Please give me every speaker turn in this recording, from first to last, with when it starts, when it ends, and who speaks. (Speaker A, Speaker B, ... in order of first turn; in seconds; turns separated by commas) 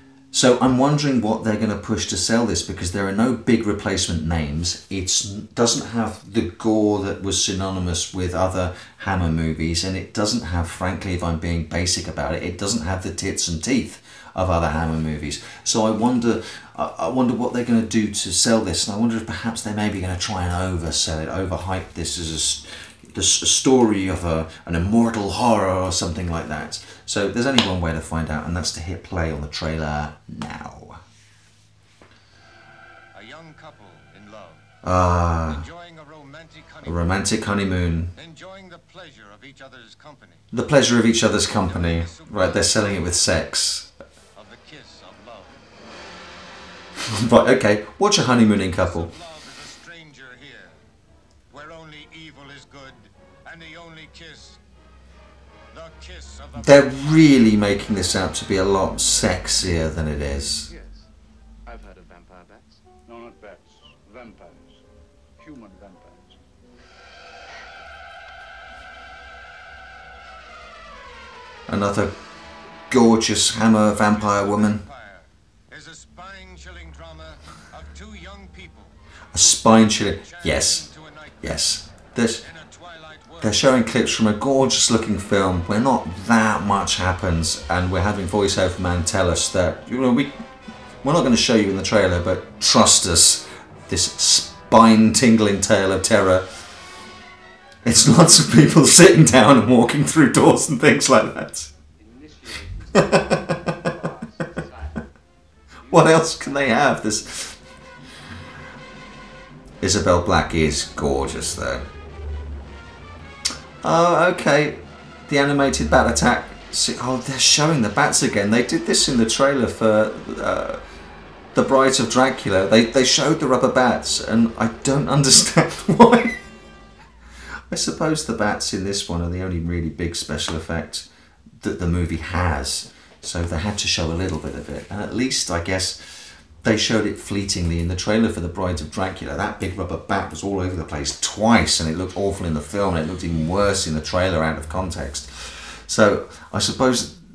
Speaker A: 0.3-31.0, Speaker B: 33.1-34.7, Speaker A: 34.8-35.6, Speaker B: 35.5-37.1, Speaker A: 36.8-38.1, Speaker B: 38.1-40.5, Speaker A: 40.5-43.9, Speaker B: 41.4-43.2, Speaker B: 44.3-45.6, Speaker A: 47.0-49.1, Speaker B: 48.8-50.8, Speaker B: 51.5-54.6, Speaker B: 55.7-57.3, Speaker A: 56.6-60.7, Speaker C: 60.7-61.1, Speaker C: 61.6-62.8, Speaker D: 63.0-64.8, Speaker D: 65.4-66.4, Speaker A: 71.7-72.1, Speaker A: 72.9-74.8, Speaker B: 74.0-81.7, Speaker A: 79.3-80.9, Speaker A: 81.4-82.5, Speaker B: 82.4-83.7, Speaker A: 83.4-90.4, Speaker A: 91.0-96.5, Speaker A: 97.8-101.7, Speaker C: 102.0-105.0, Speaker A: 102.9-103.9, Speaker C: 105.8-106.9, Speaker A: 105.9-107.5, Speaker A: 109.8-111.8, Speaker A: 113.8-120.8, Speaker A: 121.5-126.4, Speaker A: 127.7-131.1, Speaker A: 131.6-147.1